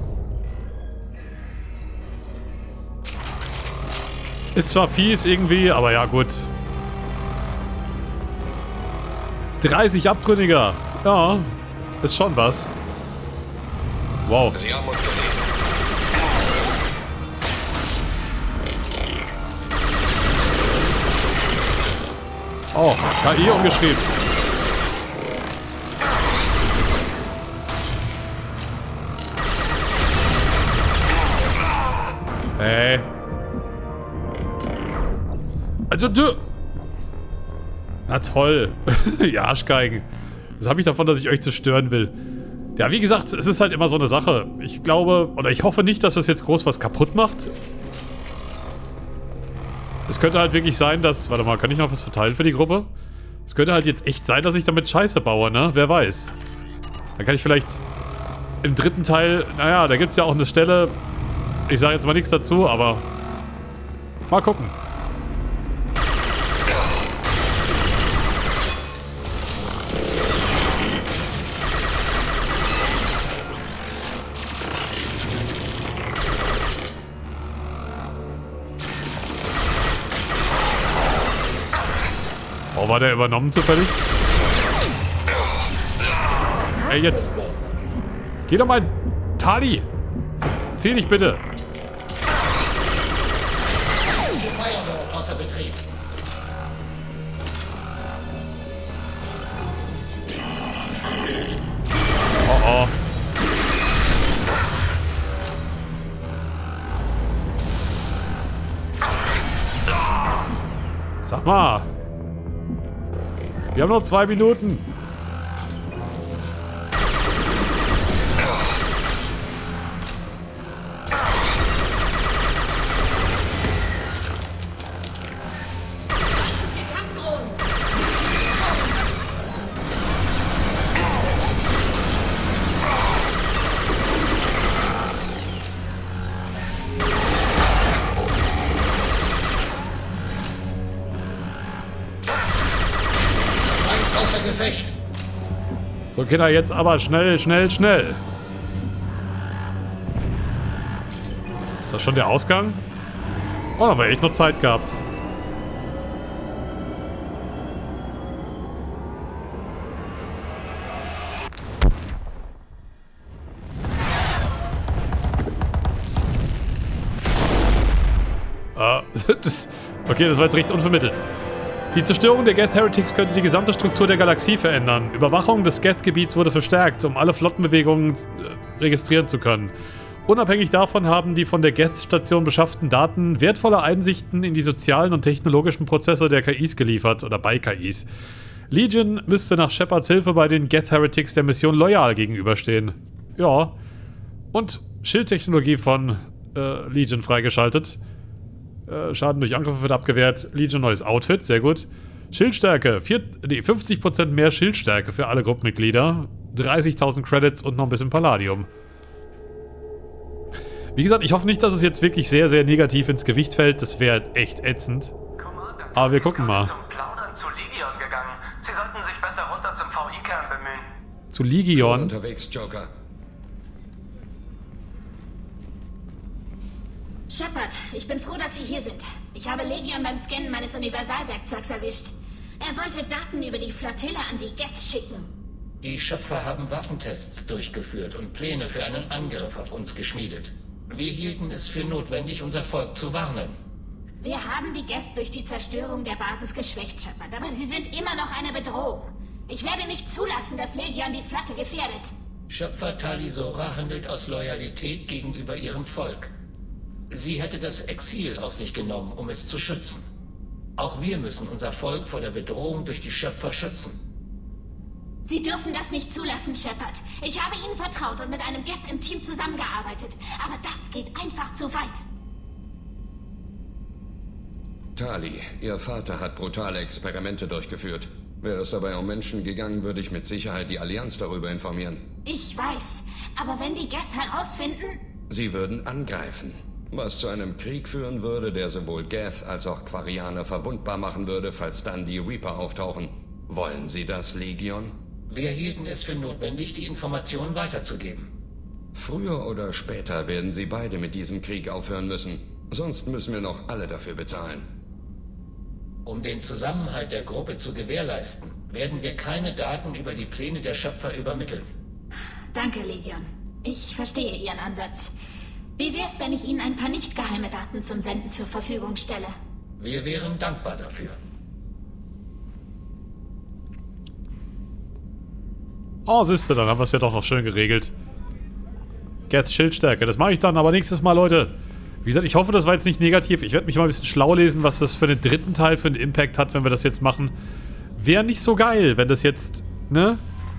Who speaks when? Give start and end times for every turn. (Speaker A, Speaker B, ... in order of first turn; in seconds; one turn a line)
Speaker A: 4.5-6.5
Speaker A: 9.6-12.7
Speaker A: 14.2-14.5
Speaker B: 14.5-15.4
Speaker A: 22.7-24.1
Speaker A: 32.6-33.1
Speaker A: 35.9-36.4
Speaker A: 38.1-40.0
Speaker A: 40.6-42.1
Speaker A: 42.8-47.5
Speaker A: 50.1-52.9
Speaker A: 53.5-56.3
Speaker A: 57.2-57.8
Speaker A: 58.6-61.0
Speaker A: 61.7-63.0
Speaker A: 64.3-64.7
Speaker A: 82.7-83.9
Speaker A: 86.9-87.3
Speaker A: 88.5-89.8
Speaker A: 90.8-91.4
Speaker C: 94.2-95.8
Speaker A: 102.4-102.9
Speaker A: 111.2-111.9
Speaker A: 113.7-114.8
Speaker D: 126.3-127.7
Speaker D: 128.4-129.1
Speaker C: 143.6-144.9
Speaker A: 146.1-148.2
Speaker A: 151.8-152.8
Speaker A: 153.8-154.9
Speaker A: 168.8-171.2
Speaker A: 171.9-179.7
Speaker A: 180.3-188.1
Speaker A: 188.7-193.7
Speaker A: 194.5-198.0
Speaker A: 198.9-208.7
Speaker A: 210.9-215.1
Speaker E: 215.4-220.9
Speaker A: 215.9-216.7
Speaker A: 221.3-222.1
Speaker B: 221.7-222.9
Speaker D: 227.3-235.3
Speaker C: 235.8-243.6
Speaker D: 244.2-252.1
Speaker C: 252.5-256.3
Speaker C: 257.1-260.1
Speaker C: 260.8-264.0
Speaker D: 265.2-272.0
Speaker B: 274.9-282.0
Speaker D: 282.2-285.0
Speaker B: 285.3-294.9
Speaker C: 295.3-298.3
Speaker B: 298.9-304.6
Speaker C: 306.0-311.7
Speaker D: 312.5-315.1
Speaker D: 315.8-319.4
Speaker C: 319.8-321.2
Speaker A: 326.1-327.9
Speaker A: 329.3-337.3
Speaker A: 337.9-340.2